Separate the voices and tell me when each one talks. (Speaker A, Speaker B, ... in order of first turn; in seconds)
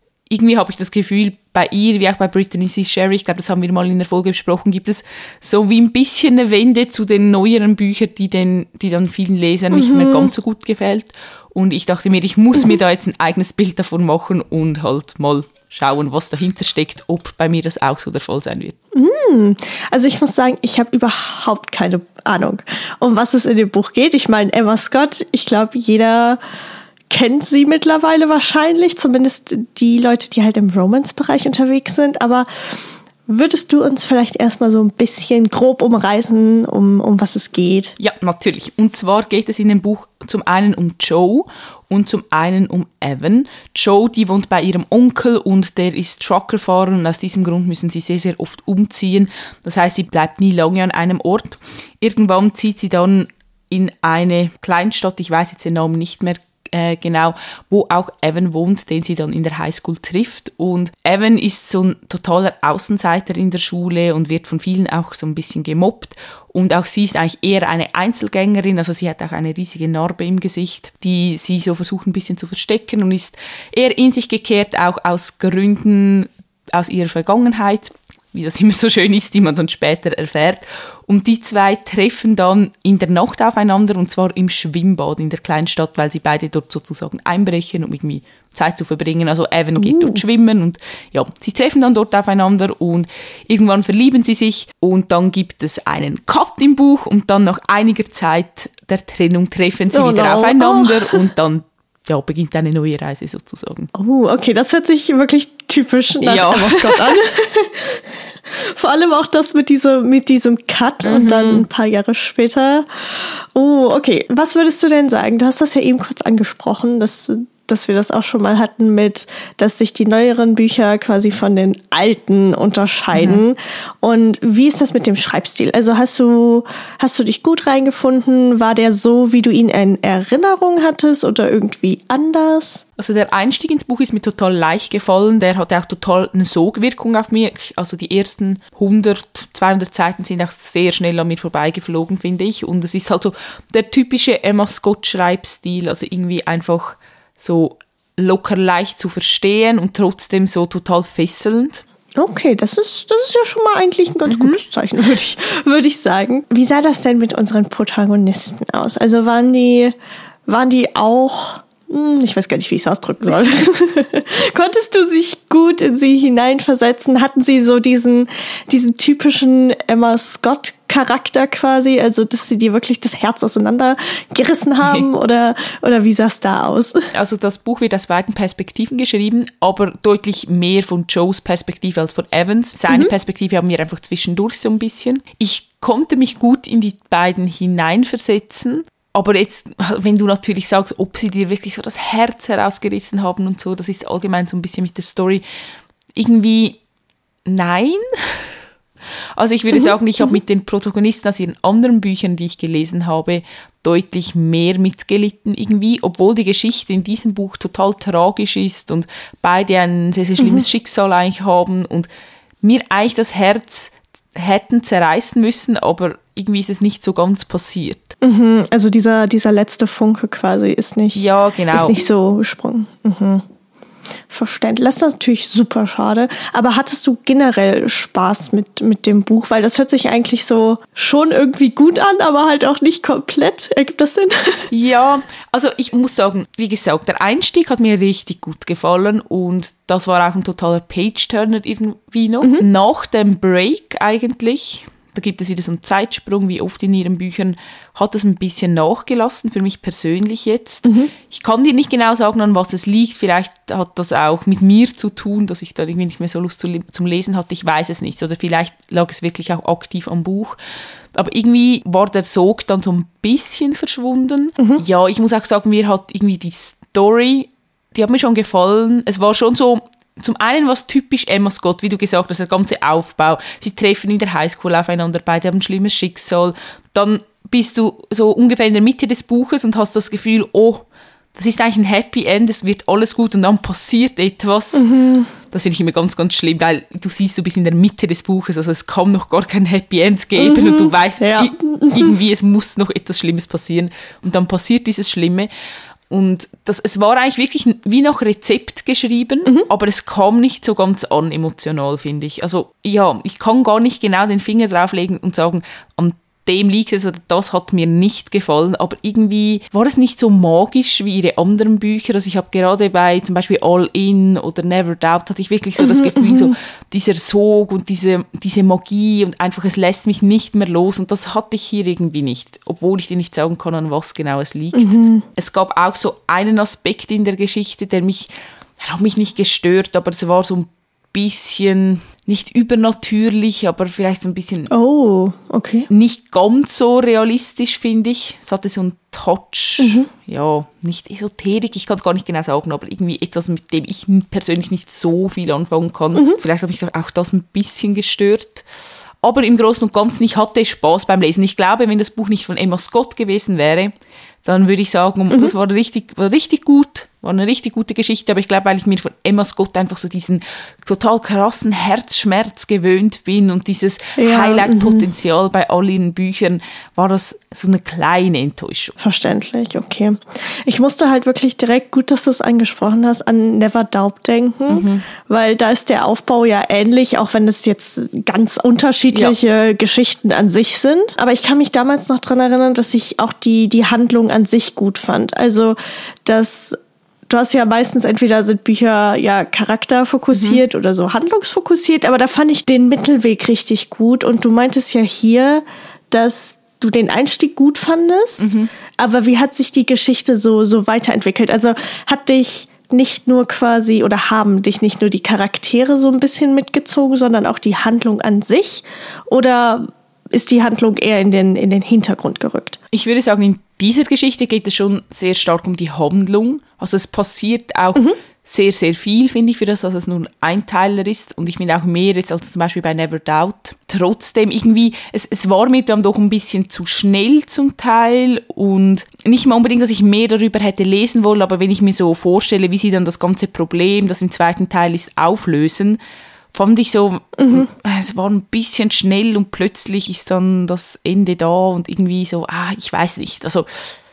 Speaker A: 0.3-18.8, 38.0-103.9, 106.2-107.2, 111.0-111.7, 123.1-123.4, 133.0-151.8, 154.3-154.6, 177.1-195.4, 196.2-196.8, 197.5-198.4, 199.4-212.1, 212.6-218.2, 221.2-222.0, 234.7-260.6, 261.1-284.9, 285.5-295.5, 296.1-328.3, 328.8-334.7, 335.9-348.7, 349.2-353.9, 354.4-369.0, 374.7-375.1, 390.3-390.6, 398.4-398.7, 412.9-436.0, 436.5-443.7
Speaker B: 9.7-10.3, 18.9-26.4, 27.1-37.9, 89.8-90.2, 99.9-101.2, 104.0-132.8, 152.2-159.9, 160.5-177.1, 210.4-210.7, 218.2-221.2, 221.7-223.4, 224.3-234.7, 250.9-251.1, 284.8-285.3, 290.4-292.1, 315.9-316.5, 324.8-325.2, 334.7-335.9, 339.8-340.1, 364.2-365.1, 369.0-386.8, 387.3-412.8, 437.4-437.7